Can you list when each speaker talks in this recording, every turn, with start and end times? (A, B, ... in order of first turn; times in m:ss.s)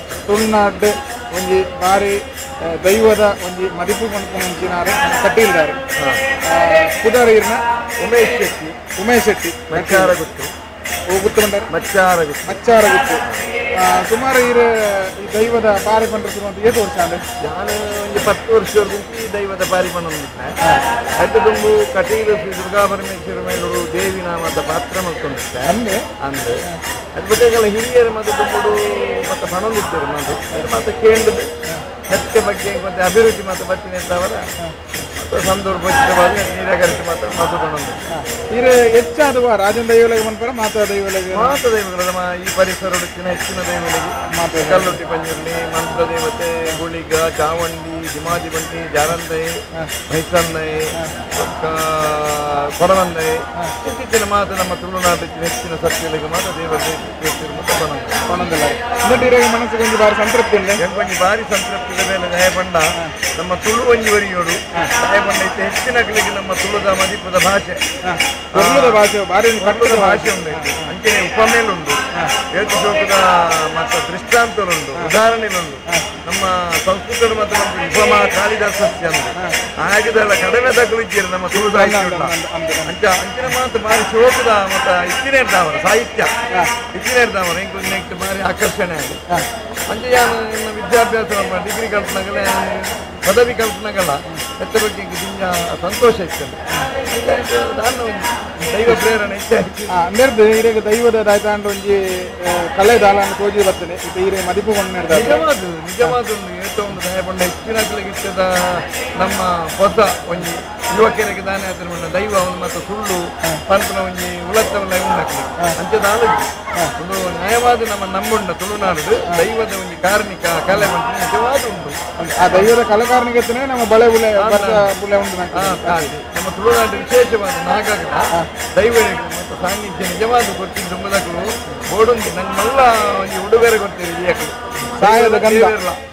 0:00.3-0:05.8 A
0:06.0-0:06.2 B
0:06.5-0:07.6 A
0:08.0-0:08.8 B
0:09.0-0:10.1 A
0:09.7-0:10.5 B
0:11.1-0:11.7 A
0:11.7-0:12.7 B
0:12.5-0:13.2 A
0:13.8-0:17.2 A
0:17.4-0:20.6 B
0:21.2-0:31.5 B
0:25.7-0:26.1 A
0:32.1-0:34.5 B
0:35.2-0:38.0 B
0:38.1-0:41.6 A
0:41.3-0:58.3 B
0:44.3-0:45.0 A
0:58.3-1:00.8 A
1:00.8-1:07.8 B
1:08.0-1:10.9 A
1:08.5-1:09.0 B
1:09.6-1:22.3 B
1:21.5-1:22.9 A
1:22.8-1:26.3 B
1:26.9-1:29.2 B
1:29.9-1:39.9 B
1:39.9-1:45.4 A
1:45.1-2:02.0 B
2:02.2-2:06.1 A
2:04.4-2:04.9 B
2:05.5-2:16.0 B
2:15.0-2:15.8 A